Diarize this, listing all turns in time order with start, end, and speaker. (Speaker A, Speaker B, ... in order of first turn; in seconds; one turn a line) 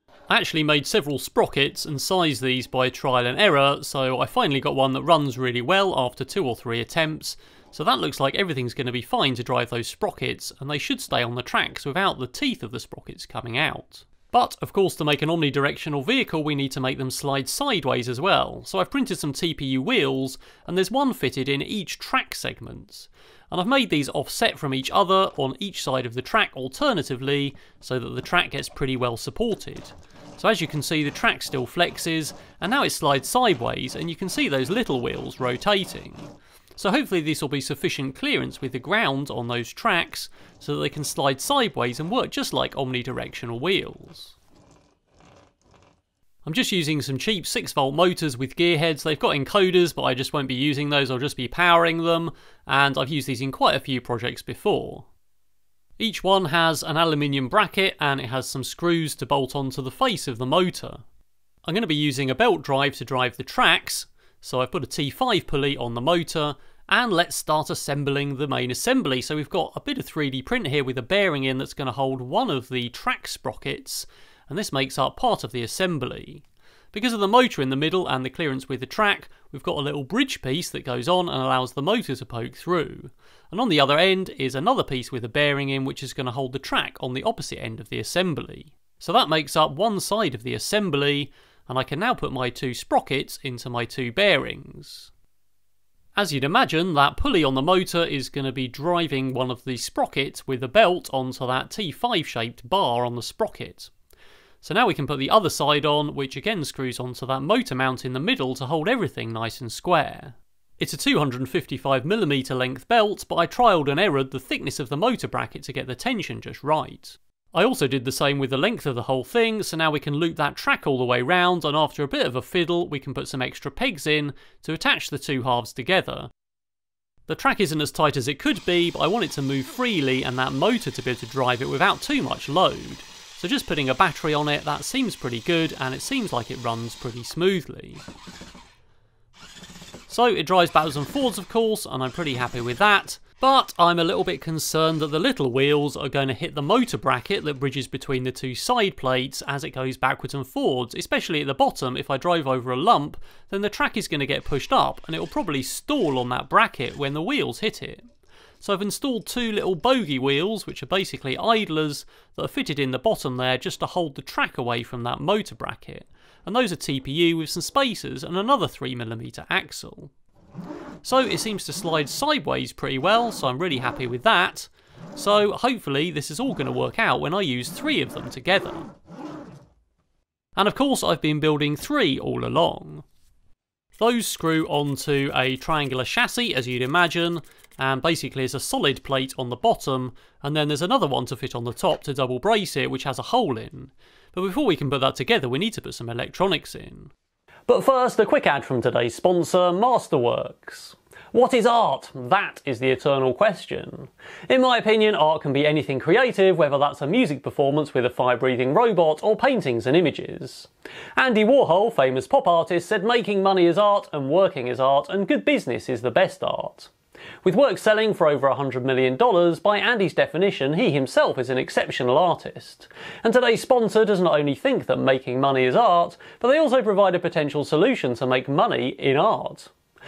Speaker A: 0.3-44.4
Speaker A: 46.4-55.1
Speaker A: 56.0-61.0
Speaker A: 61.6-95.1
Speaker A: 96.2-103.9
Speaker A: 104.6-126.3
Speaker A: 127.3-138.0
Speaker A: 140.1-158.0
Speaker A: 158.6-170.1
Speaker A: 171.0-178.9
Speaker A: 180.6-183.0
Speaker A: 183.9-197.1
Speaker A: 197.7-216.9
Speaker A: 217.4-229.7